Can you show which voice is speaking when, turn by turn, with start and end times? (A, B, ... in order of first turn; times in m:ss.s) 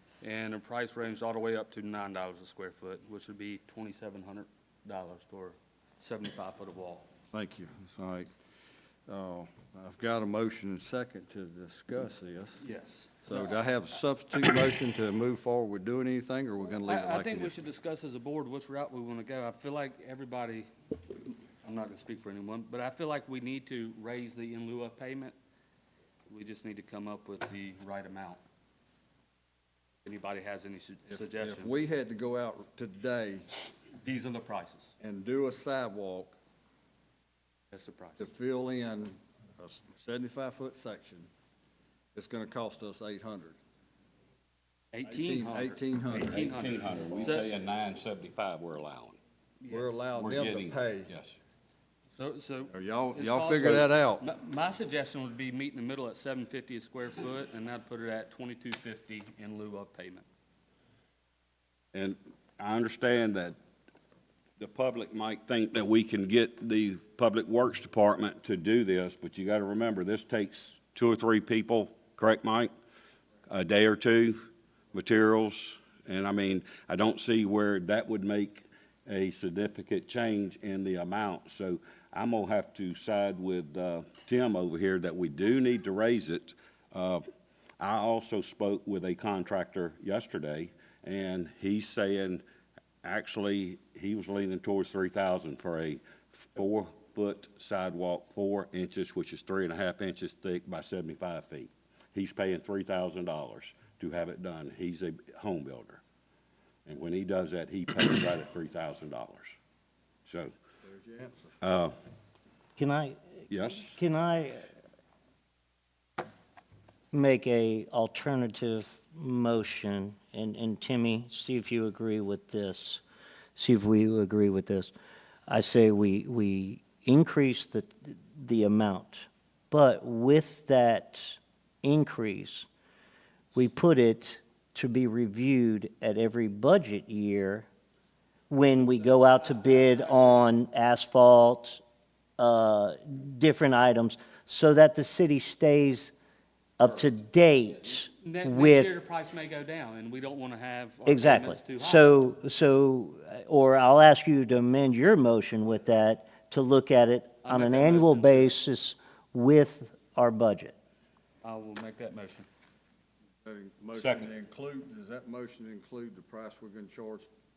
0:00.2-0:07.1 A
0:07.3-0:08.3 B
0:09.1-0:12.6 B
0:12.6-0:13.6 A
0:13.2-0:17.6 B
0:16.9-0:20.7 A
0:21.6-0:25.4 A
0:26.3-0:28.4 A
0:30.0-0:31.8 A
0:31.1-0:33.6 B
0:33.9-0:34.9 A
0:35.0-0:36.4 B
0:37.7-0:38.2 A
0:38.2-0:41.3 B
0:42.1-0:43.6 B
0:44.9-0:47.5 A
0:45.0-0:46.3 B
0:46.2-0:49.2 C
0:49.6-0:49.9 A
0:49.7-0:51.1 B
0:50.1-0:51.4 C
0:52.1-1:00.3 A
0:52.7-0:54.3 B
1:01.9-1:03.6 C
1:04.6-1:12.7 C
1:13.5-1:27.2 C
1:27.8-1:32.4 C
1:33.0-1:46.0 C
1:46.8-1:49.5 C
1:50.2-1:50.5 C
1:50.8-1:51.6 B
1:51.6-1:51.9 C
1:52.8-1:54.7 D
1:53.5-1:54.0 C
1:57.1-2:03.0 D
2:03.5-2:04.9 D
2:05.5-2:12.7 D
2:13.5-2:17.7 D
2:18.5-2:21.8 D
2:22.4-2:26.1 D
2:26.8-2:29.0 D
2:28.2-2:32.0 A
2:31.0-2:40.8 D
2:37.4-2:38.5 A
2:41.4-2:42.5 A
2:43.4-2:47.3 B
2:43.9-2:44.3 C